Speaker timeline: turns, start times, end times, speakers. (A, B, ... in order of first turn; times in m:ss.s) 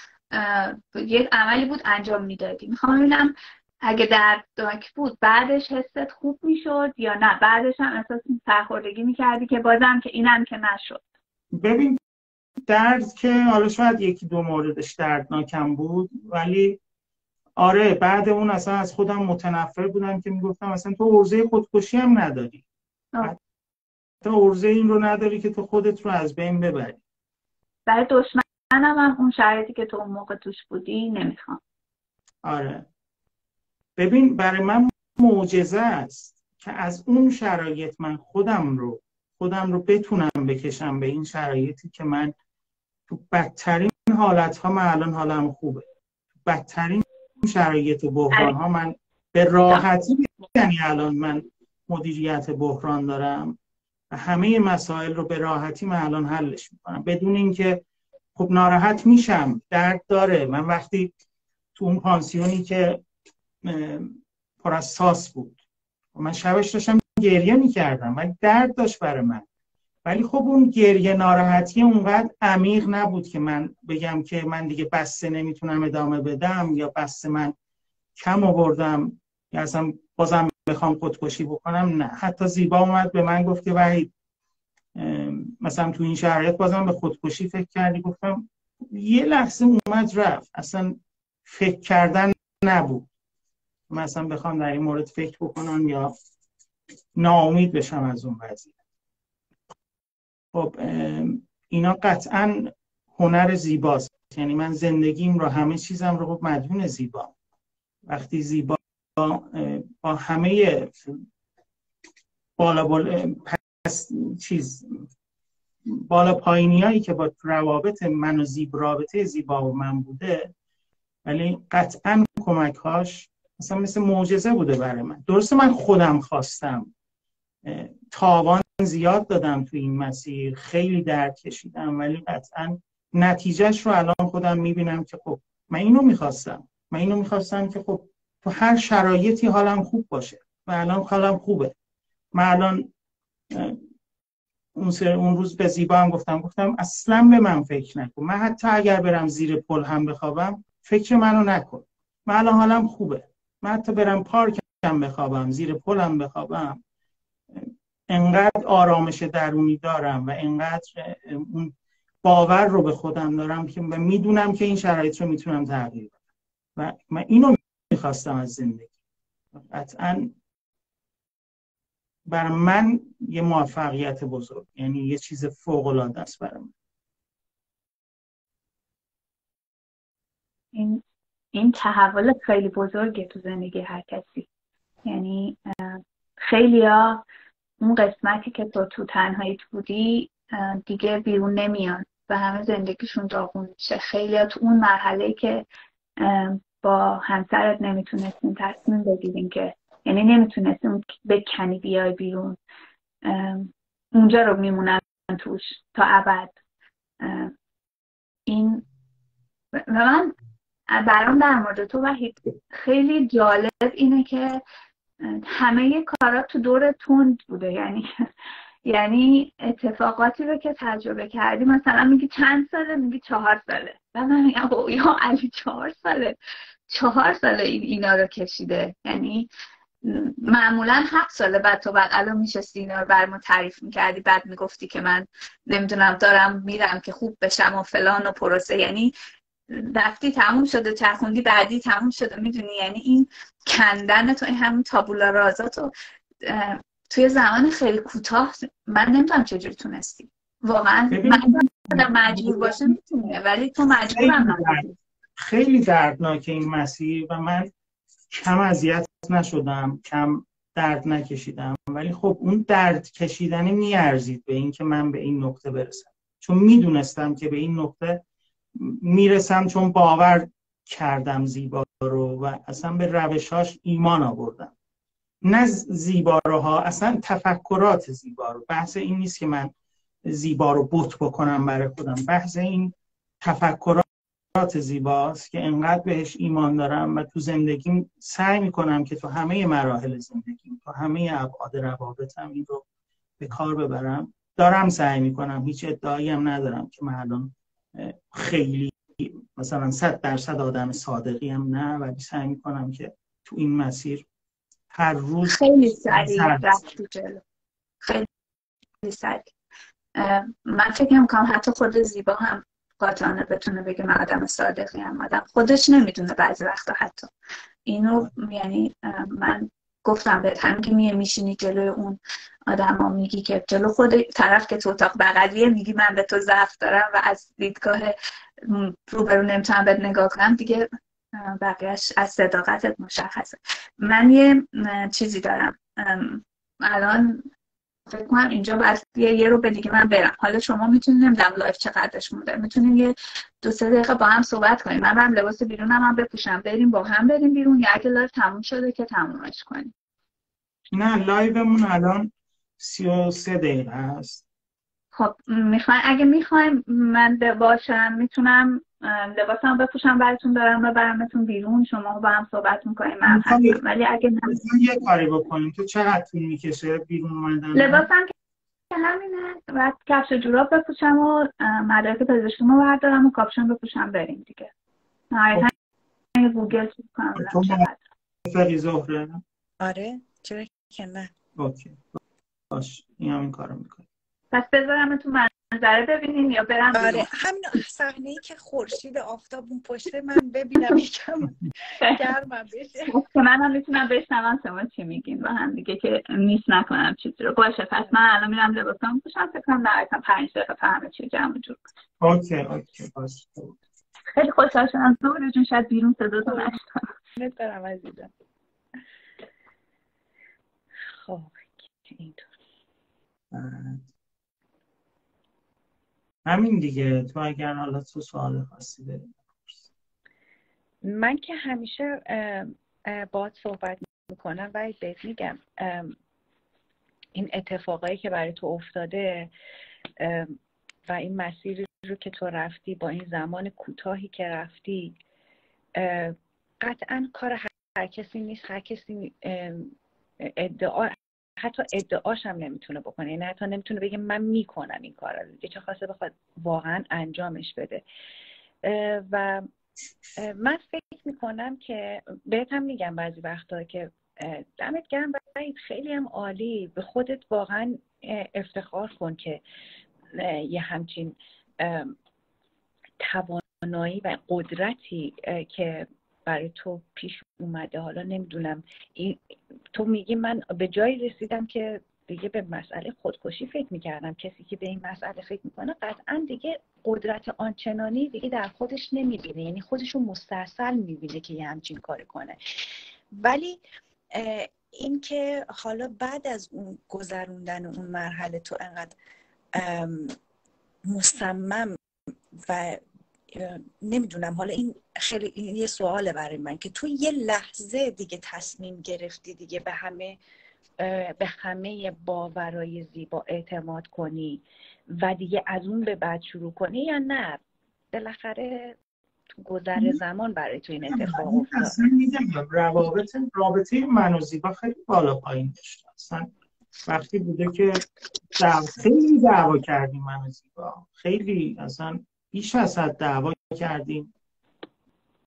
0:00.3-0:11.0 A
0:11.6-0:12.0 B
0:12.7-0:16.8 B
0:17.6-0:22.6 B
0:24.2-0:27.0 B
0:27.9-0:31.6 A
0:32.4-0:32.8 B
0:34.0-0:42.3 B
0:43.1-0:45.9 B
0:46.4-0:53.6 B
0:54.1-0:57.8 B
0:58.4-1:01.1 B
1:01.8-1:03.0 B
1:03.6-1:05.6 B
1:06.2-1:09.5 B
1:10.0-1:17.6 B
1:18.2-1:24.1 B
1:25.0-1:33.1 B
1:33.9-1:36.1 B
1:37.2-1:38.7 B
1:40.5-1:47.3 B
1:48.1-1:51.3 B
1:52.6-1:55.1 B
1:55.9-2:00.5 B
2:01.2-2:06.9 B
2:07.6-2:21.8 B
2:22.4-2:22.9 B
2:23.5-2:23.8 B
2:24.8-2:36.8 B
2:37.5-2:41.7 B
2:42.2-2:46.2 B
2:46.8-2:48.9 B
2:49.6-2:50.3 B
2:52.3-2:56.7 B
3:00.7-3:01.0 A
3:01.5-3:04.5 A
3:05.1-3:07.2 A
3:07.8-3:15.7 A
3:16.2-3:22.6 A
3:23.2-3:26.5 A
3:27.2-3:27.5 A
3:28.5-3:28.8 A
3:29.8-3:30.4 A
3:30.9-3:34.6 A
3:35.2-3:38.1 A
3:38.8-3:46.4 A
3:46.9-3:49.5 A
3:50.0-3:59.1 A
3:59.7-4:05.9 A
4:06.4-4:15.0 A
4:11.1-4:13.0 B
4:14.2-4:14.8 B
4:15.4-4:17.7 B
4:18.3-4:28.2 B
4:28.8-4:34.8 B
4:35.4-4:39.7 B
4:40.3-4:52.8 B
4:53.4-5:04.2 B
5:04.9-5:06.8 B
5:05.4-5:07.4 A
5:08.0-5:08.3 A
5:09.0-5:09.5 A
5:10.2-5:17.3 A
5:17.9-5:37.5 A
5:38.1-5:49.9 A
5:50.9-5:54.4 B
5:55.2-6:04.6 A
6:03.3-6:03.8 B
6:04.4-6:08.1 B
6:07.8-6:08.3 A
6:08.9-6:14.7 A
6:15.3-6:15.7 A
6:16.4-6:18.0 A
6:17.4-6:17.9 B
6:18.4-6:19.4 B
6:19.8-6:21.3 C
6:21.6-6:22.2 B
6:22.7-6:24.1 B
6:24.5-6:27.3 A
6:26.9-6:33.2 C
6:32.0-6:32.2 A
6:33.1-6:41.8 A
6:42.2-6:43.8 B
6:44.3-6:47.0 A
6:46.5-6:46.7 C
6:47.4-6:48.3 C
6:51.2-6:52.5 C
6:53.5-6:54.1 B
6:56.5-6:59.9 B
7:01.0-7:06.2 C
7:07.4-7:09.5 C
7:10.2-7:15.2 C
7:16.0-7:28.0 C
7:28.8-7:29.7 C
7:30.4-7:39.6 C
7:40.3-7:42.2 C
7:43.2-8:03.8 C
8:04.3-8:09.2 C
8:09.7-8:10.4 C
8:11.0-8:12.0 C
8:12.5-8:20.4 C
8:21.0-8:29.0 C
8:29.5-8:32.0 C
8:31.1-8:36.5 B
8:37.1-8:44.3 B